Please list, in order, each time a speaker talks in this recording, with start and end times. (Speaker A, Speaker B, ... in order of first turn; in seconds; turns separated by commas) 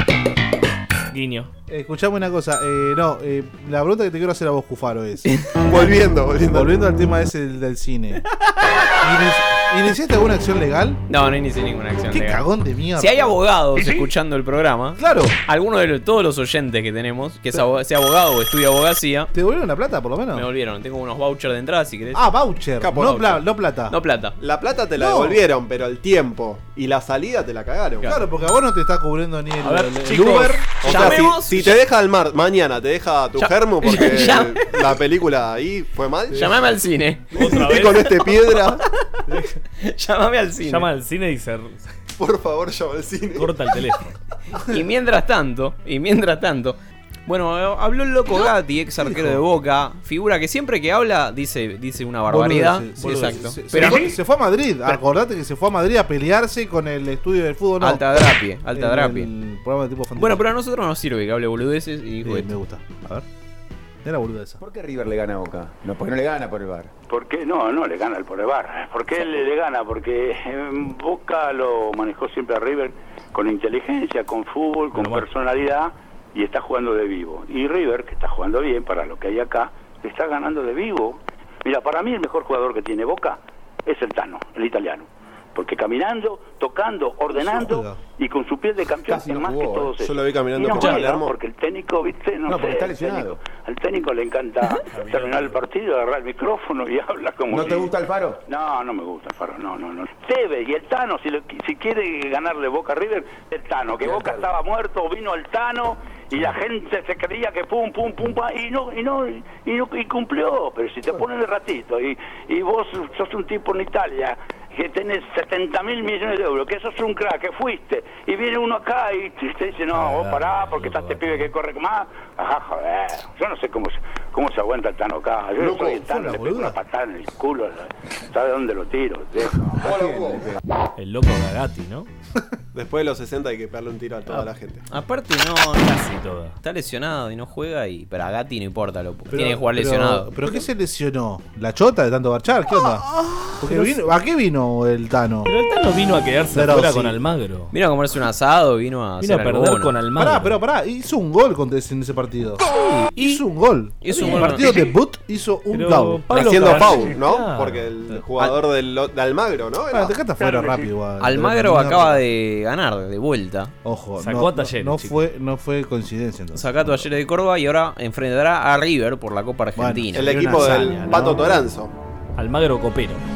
Speaker A: 1.1-1.5, Speaker B: 1.7-5.2, Speaker C: 5.6-6.7, Speaker B: 6.5-8.2, Speaker B: 9.0-11.0, Speaker D: 11.1-12.4, Speaker B: 12.1-13.4, Speaker D: 13.0-19.3, Speaker B: 15.0-15.3, Speaker B: 19.3-20.4, Speaker D: 20.3-22.2, Speaker B: 22.1-23.9, Speaker C: 22.8-23.4, Speaker D: 23.9-24.4, Speaker C: 24.4-28.1, Speaker B: 25.0-25.4, Speaker B: 28.0-30.8, Speaker A: 29.6-30.8, Speaker C: 30.8-36.5, Speaker D: 30.8-31.8, Speaker D: 33.4-34.8, Speaker D: 36.3-37.6, Speaker A: 37.3-38.3, Speaker C: 37.4-38.8, Speaker D: 39.8-40.9, Speaker A: 40.6-41.9, Speaker C: 42.2-43.5, Speaker A: 43.4-44.2, Speaker D: 44.7-54.1, Speaker B: 49.0-49.4, Speaker B: 52.3-60.4, Speaker A: 53.0-53.4, Speaker D: 57.8-59.3, Speaker D: 60.2-62.5, Speaker B: 62.2-63.2, Speaker B: 64.0-64.6, Speaker E: 64.6-66.9, Speaker F: 67.1-97.9, Speaker A: 74.9-75.3, Speaker B: 87.3-88.0, Speaker E: 89.0-89.9, Speaker C: 90.0-91.3, Speaker E: 92.5-93.4, Speaker A: 94.9-95.5, Speaker E: 97.5-98.4, Speaker F: 98.5-129.9, Speaker E: 104.0-104.5, Speaker A: 119.9-121.5, Speaker B: 125.9-126.8, Speaker C: 129.9-130.3, Speaker E: 129.9-130.4, Speaker A: 131.0-132.1, Speaker C: 132.7-134.8, Speaker D: 134.9-135.9, Speaker A: 135.8-136.6, Speaker D: 136.6-140.3, Speaker B: 139.3-145.5, Speaker A: 143.6-144.0, Speaker A: 145.4-147.7, Speaker B: 146.5-147.2, Speaker D: 147.7-149.9, Speaker A: 149.2-150.6, Speaker B: 150.2-156.9, Speaker D: 154.0-154.8, Speaker A: 154.2-154.8, Speaker A: 155.7-157.9, Speaker C: 156.3-160.1, Speaker B: 159.9-162.2, Speaker D: 161.2-163.7, Speaker B: 163.8-167.1, Speaker A: 164.2-165.2, Speaker D: 166.5-170.6, Speaker B: 169.8-171.6, Speaker C: 170.1-171.9, Speaker A: 172.4-173.2